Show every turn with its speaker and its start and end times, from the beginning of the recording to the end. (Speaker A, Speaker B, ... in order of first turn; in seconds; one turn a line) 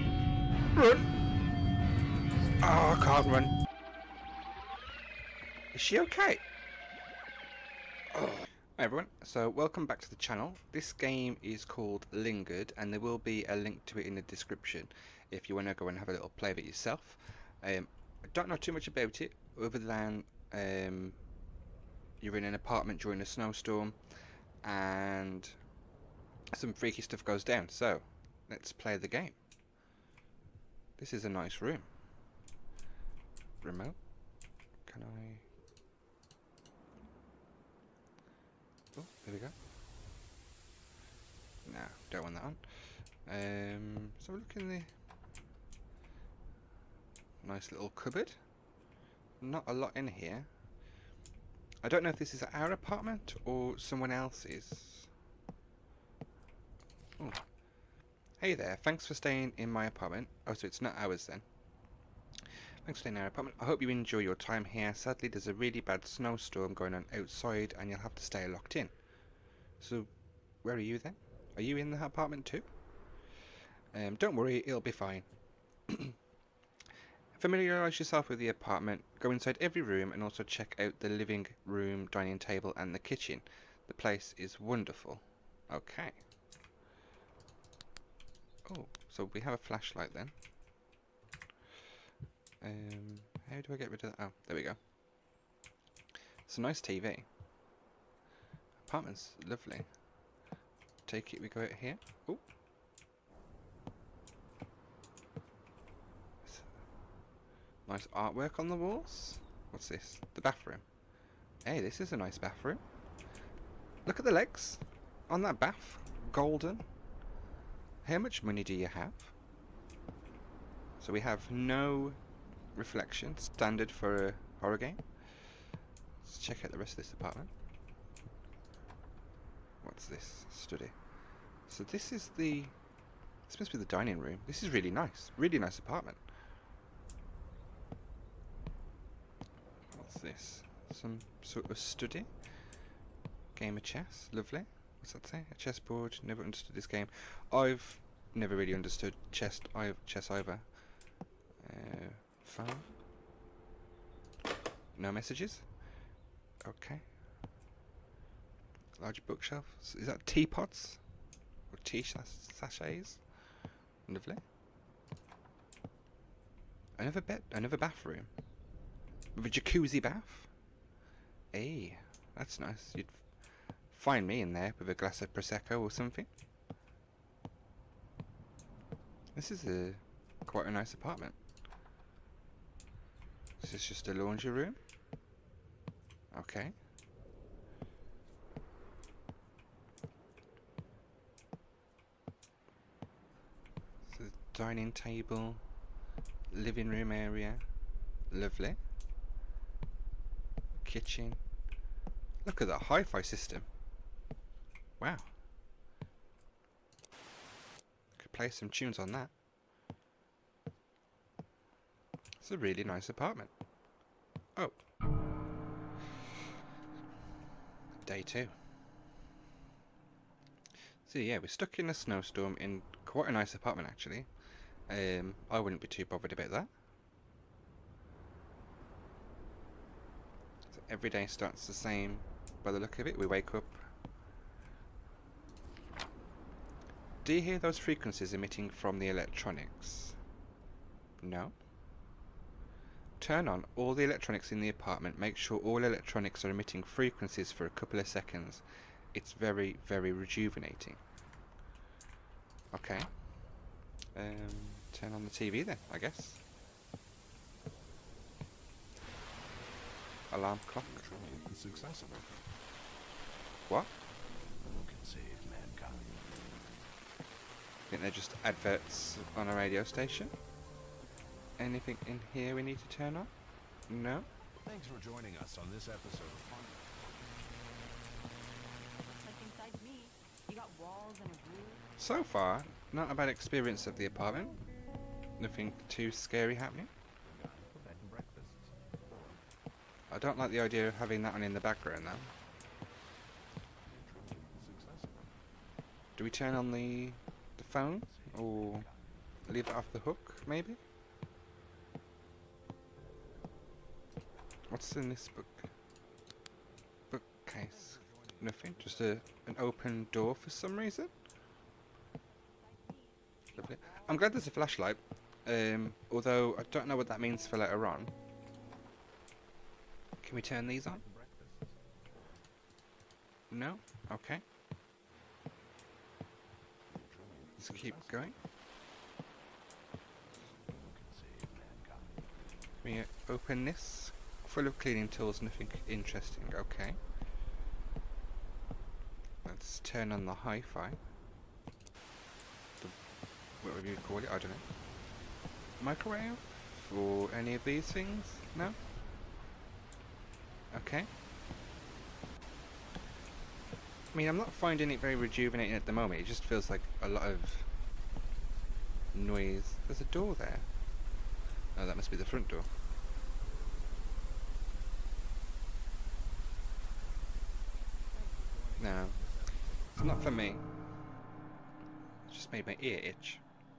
Speaker A: 0.7-1.1
Speaker A: 2.6-3.5
Speaker A: 5.7-6.4
Speaker A: 8.1-21.2
Speaker A: 22.2-24.0
Speaker A: 24.6-25.6
Speaker A: 26.5-29.4
Speaker A: 31.0-31.9
Speaker A: 33.6-34.0
Speaker A: 34.9-35.4
Speaker A: 38.9-39.5
Speaker A: 41.6-44.9
Speaker A: 47.4-48.4
Speaker A: 49.4-50.5
Speaker A: 51.8-55.1
Speaker A: 58.4-61.4
Speaker A: 62.8-68.9
Speaker A: 69.8-70.1
Speaker A: 70.6-72.7
Speaker A: 73.9-75.3
Speaker A: 75.9-76.2
Speaker A: 77.3-86.2
Speaker A: 88.7-90.3
Speaker A: 92.6-94.8
Speaker A: 96.5-97.3
Speaker A: 98.8-99.9
Speaker A: 101.0-102.4
Speaker A: 107.8-110.8
Speaker A: 111.6-112.8
Speaker A: 114.0-116.8
Speaker A: 118.0-119.3
Speaker A: 121.0-122.2
Speaker A: 122.7-125.0
Speaker A: 126.2-127.5
Speaker A: 129.8-130.9
Speaker A: 131.7-132.7
Speaker A: 133.5-136.2
Speaker A: 139.9-142.3
Speaker A: 143.5-150.7
Speaker A: 151.6-152.9
Speaker A: 154.9-155.7
Speaker A: 156.6-157.0
Speaker A: 159.0-161.0
Speaker A: 161.7-163.2
Speaker A: 164.1-164.4
Speaker A: 167.0-168.3
Speaker A: 169.3-170.5
Speaker A: 171.5-173.2
Speaker A: 173.9-176.3
Speaker A: 179.3-181.3
Speaker A: 183.6-184.8
Speaker A: 186.3-186.7
Speaker A: 194.1-195.6
Speaker A: 196.5-197.6
Speaker A: 198.3-198.8
Speaker A: 200.8-201.4
Speaker A: 202.4-203.7
Speaker A: 205.0-205.3
Speaker A: 208.2-209.3
Speaker A: 212.4-213.5
Speaker A: 218.0-218.5
Speaker A: 221.1-224.3
Speaker A: 224.9-226.7
Speaker A: 230.7-233.8
Speaker A: 237.2-240.2
Speaker A: 241.2-241.5
Speaker A: 243.2-251.0
Speaker A: 252.7-253.1
Speaker A: 254.1-256.4
Speaker A: 260.3-261.0
Speaker B: 260.9-262.4
Speaker B: 264.6-266.3
Speaker A: 267.9-270.3
Speaker A: 271.6-273.3
Speaker A: 273.9-274.2
Speaker B: 274.6-277.1
Speaker C: 279.2-281.9
Speaker A: 282.0-284.6
Speaker A: 285.4-286.9
Speaker B: 287.2-289.4
Speaker A: 290.1-292.3
Speaker B: 293.8-295.4
Speaker A: 296.2-298.9
Speaker B: 297.9-299.3
Speaker A: 299.4-300.8
Speaker A: 304.7-305.6
Speaker A: 307.1-311.1
Speaker B: 307.6-309.3
Speaker C: 312.4-314.4
Speaker A: 313.6-318.1
Speaker A: 320.2-321.0
Speaker B: 320.7-321.8
Speaker A: 323.5-324.4
Speaker B: 326.9-328.4
Speaker A: 327.6-328.3
Speaker B: 330.7-332.2
Speaker A: 332.8-337.0
Speaker A: 339.4-341.0
Speaker A: 343.6-344.6
Speaker A: 345.8-348.8
Speaker A: 350.7-351.1
Speaker A: 354.1-357.7
Speaker A: 359.1-360.6
Speaker A: 361.7-362.7
Speaker B: 368.1-370.4
Speaker A: 368.8-369.2
Speaker A: 369.9-370.6
Speaker A: 372.3-373.4